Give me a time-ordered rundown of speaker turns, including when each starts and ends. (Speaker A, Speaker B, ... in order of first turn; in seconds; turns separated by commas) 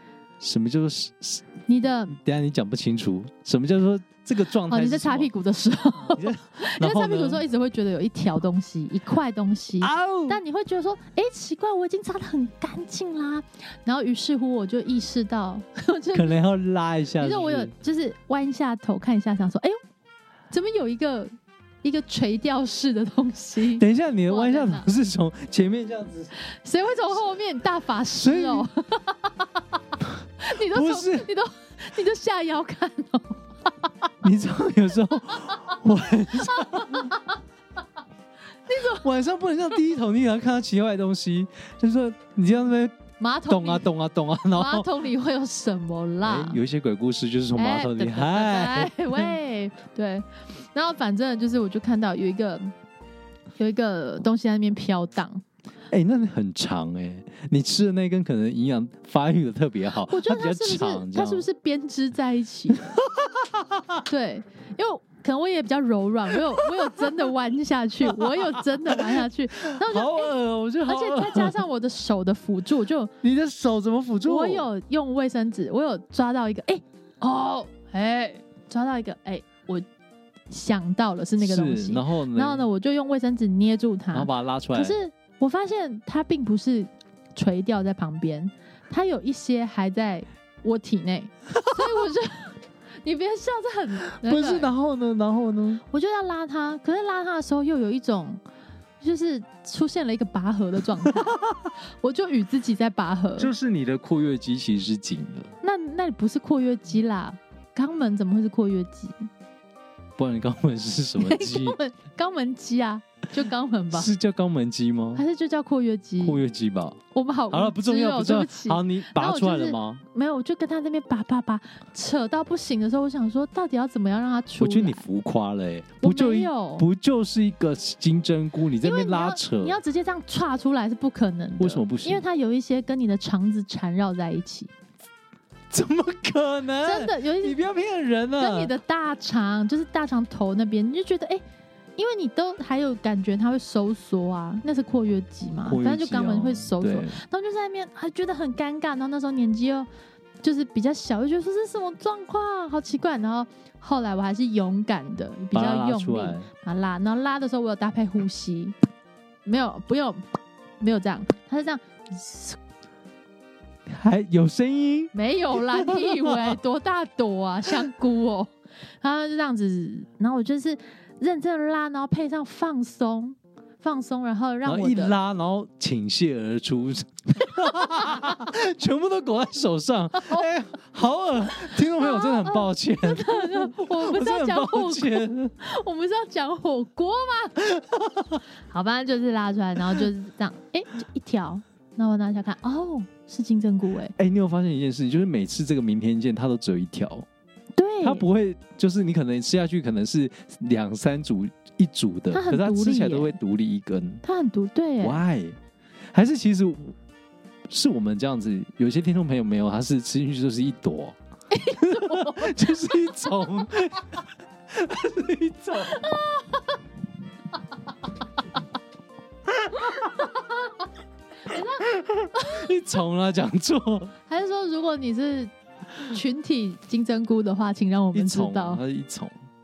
Speaker A: 0.4-1.5, Speaker B: 1.7-2.1, Speaker A: 2.1-5.3, Speaker B: 4.7-16.4, Speaker A: 6.1-7.4, Speaker A: 9.8-10.4, Speaker A: 16.1-17.7, Speaker B: 17.2-19.8, Speaker B: 20.5-24.9, Speaker A: 23.7-26.3, Speaker B: 26.4-29.8, Speaker A: 28.1-28.7, Speaker B: 30.4-33.4, Speaker A: 30.5-31.3, Speaker A: 34.2-37.1, Speaker B: 36.5-37.3, Speaker B: 38.7-39.0, Speaker A: 38.8-44.9, Speaker B: 43.2-43.9, Speaker B: 44.5-46.6, Speaker A: 46.2-49.3, Speaker B: 47.5-52.7, Speaker B: 53.6-55.4, Speaker A: 55.9-61.5, Speaker B: 60.1-63.0, Speaker A: 62.7-64.0, Speaker B: 64.0-73.1, Speaker A: 66.7-67.1, Speaker A: 68.1-71.6, Speaker A: 73.2-74.7, Speaker B: 74.2-79.8, Speaker B: 80.5-94.7, Speaker A: 81.4-82.6, Speaker A: 84.1-85.0, Speaker A: 94.1-95.8, Speaker B: 95.9-98.4, Speaker B: 99.0-101.4, Speaker A: 101.0-101.7, Speaker B: 102.0-103.5, Speaker A: 103.4-105.5, Speaker B: 105.6-109.3, Speaker A: 110.2-111.8, Speaker B: 111.2-114.1, Speaker A: 113.9-115.2, Speaker B: 115.1-116.4, Speaker A: 116.2-117.0, Speaker B: 117.1-125.0, Speaker A: 117.5-120.0, Speaker A: 124.6-129.8, Speaker B: 126.0-126.9, Speaker B: 128.8-134.7, Speaker A: 131.6-132.2, Speaker A: 135.7-138.7, Speaker B: 136.8-137.6, Speaker B: 138.4-141.4, Speaker B: 142.0-149.9, Speaker A: 145.6-147.2, Speaker B: 150.4-158.7, Speaker A: 155.5-156.5, Speaker B: 159.4-162.6, Speaker A: 163.9-166.6, Speaker B: 165.1-175.2, Speaker A: 174.6-185.5, Speaker B: 177.7-178.3, Speaker B: 181.6-187.7, Speaker A: 187.7-188.4, Speaker B: 188.7-194.1, Speaker A: 194.2-197.3, Speaker B: 197.8-198.2, Speaker A: 198.0-204.2, Speaker B: 202.3-203.4, Speaker B: 204.2-205.2, Speaker A: 205.0-205.6, Speaker A: 206.1-206.9, Speaker A: 207.7-211.2, Speaker B: 211.5-212.8, Speaker A: 211.7-216.1, Speaker B: 215.9-216.6, Speaker A: 219.6-220.2, Speaker B: 219.9-220.7, Speaker B: 221.4-222.7, Speaker A: 221.5-224.1, Speaker B: 224.3-228.8, Speaker A: 228.1-229.4